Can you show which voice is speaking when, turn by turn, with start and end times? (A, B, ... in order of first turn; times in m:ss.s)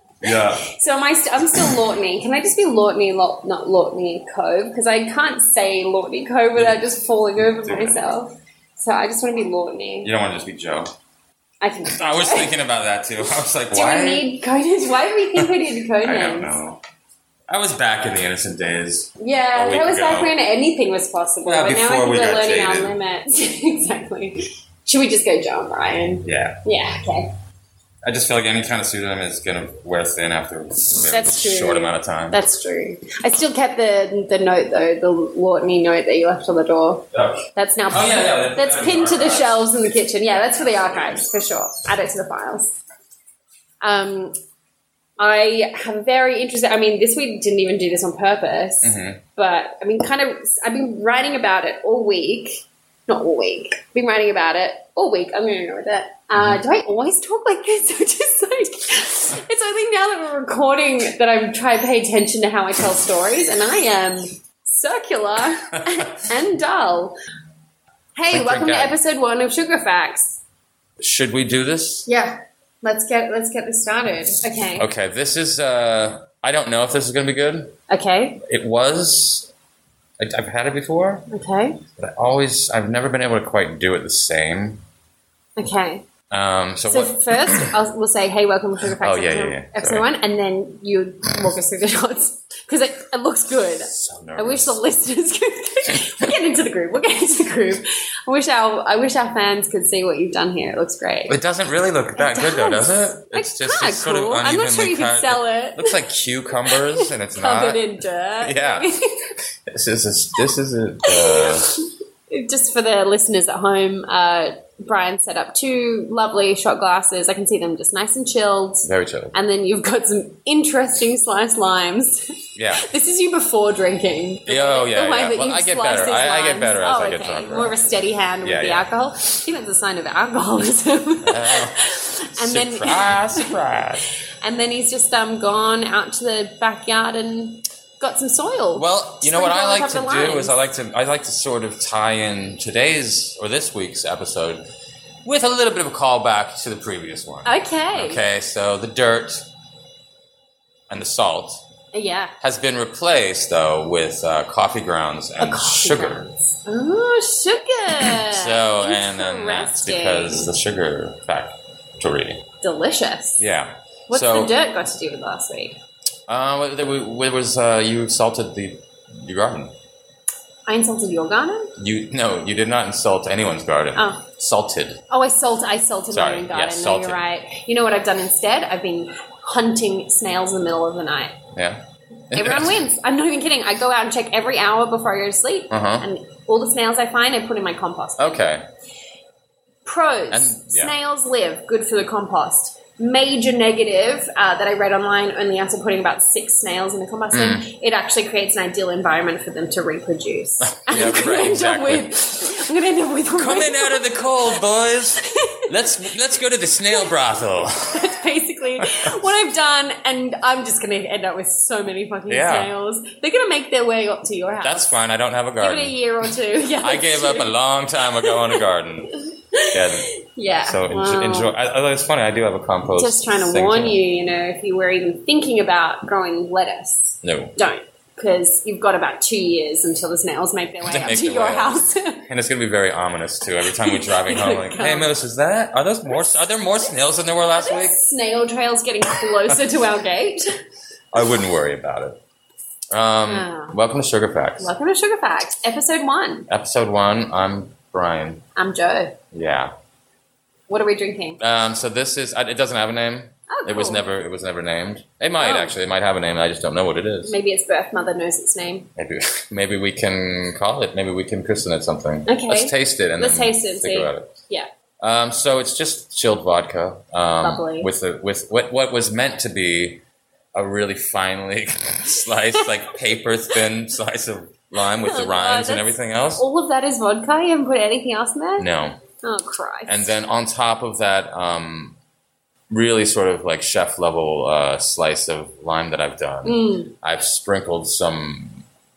0:00.2-0:00.6 A
0:00.3-0:10.1 B
0:07.4-0:08.0 A
0:10.0-0:10.9 A
0:11.6-0:12.5 B
0:11.9-0:14.3 A
0:13.7-0:16.5 B
0:15.4-0:16.8 A
0:17.5-0:20.3 A
0:19.2-0:27.3 B
0:21.4-0:23.0 A
0:26.2-0:26.6 A
0:28.0-0:32.4 A
0:31.0-0:42.7 B
0:37.1-0:39.8 A
0:40.4-0:41.3 A
0:43.8-0:44.4 B
0:45.2-1:07.2 B
0:48.8-0:49.2 A
1:08.2-1:10.4 B
1:08.3-1:09.0 A
1:11.0-1:12.1 A
1:12.0-1:14.9 B
1:14.8-1:17.8 A
1:17.9-1:18.4 B
1:18.4-1:19.5 A
1:20.2-1:21.2 A
1:21.3-1:21.8 B
1:22.0-1:24.8 A
1:25.6-1:26.0 B
1:26.3-1:27.7 A
1:26.8-1:41.4 B
1:29.0-1:30.1 A
1:33.9-1:34.8 A
1:41.3-1:47.8 A
1:42.2-1:46.0 B
1:46.7-1:49.3 B
1:48.4-1:48.9 A
1:49.7-1:51.7 A
1:51.0-2:13.6 B
1:58.8-1:59.3 A
2:02.6-2:02.8 A
2:04.4-2:07.8 A
2:08.4-2:08.9 A
2:11.2-2:11.8 A
2:12.3-2:14.0 A
2:14.4-2:20.6 B
2:18.7-2:24.6 A
2:25.2-2:29.5 A
2:27.4-2:28.2 B
2:30.9-2:31.6 A
2:31.9-2:32.3 B
2:32.4-2:36.3 A
2:35.4-2:40.5 B
2:38.0-2:42.4 A
2:42.6-2:43.5 B
2:43.4-2:44.5 A
2:44.1-2:45.8 B
2:46.3-2:49.7 A
2:50.7-2:51.7 B
2:51.8-2:55.0 A
2:54.0-2:54.2 B
2:55.1-3:01.4 B
2:56.1-2:57.2 A
3:01.5-3:02.8 A
3:02.3-3:08.4 B
3:05.7-3:06.0 A
3:08.2-3:08.6 A
3:09.8-3:24.0 B
3:10.3-3:10.9 A
3:17.3-3:17.6 A
3:20.6-3:22.1 A
3:23.3-3:28.1 A
3:25.2-3:25.6 B
3:27.9-3:34.9 B
3:28.8-3:29.1 A
3:32.3-3:32.7 A
3:34.6-3:36.0 A
3:35.6-3:37.6 B
3:36.8-3:39.2 A
3:38.2-3:38.6 B
3:39.5-3:41.5 B
3:39.7-3:40.1 A
3:40.6-3:44.0 A
3:43.0-3:52.2 B
3:47.2-3:47.5 A
3:50.8-3:58.0 A
3:53.7-3:55.1 B
3:57.5-4:00.6 B
4:01.1-4:02.2 A
4:02.9-4:04.7 A
4:03.3-4:03.8 B
4:04.6-4:06.5 B
4:06.5-4:08.4 A
4:08.6-4:09.1 B
4:09.3-4:09.7 A
4:10.7-4:11.4 B
4:11.4-4:17.4 A
4:13.5-4:14.0 B
4:15.4-4:15.7 B
4:17.2-4:18.9 B
4:19.0-4:24.3 A
4:22.3-4:24.7 B
4:25.0-4:30.0 A
4:27.4-4:27.9 B
4:30.5-4:36.4 A
4:35.0-4:38.7 B
4:38.6-4:39.0 A
4:39.2-4:40.1 B
4:39.9-4:42.0 A
4:42.7-4:48.6 A
4:46.4-4:46.9 B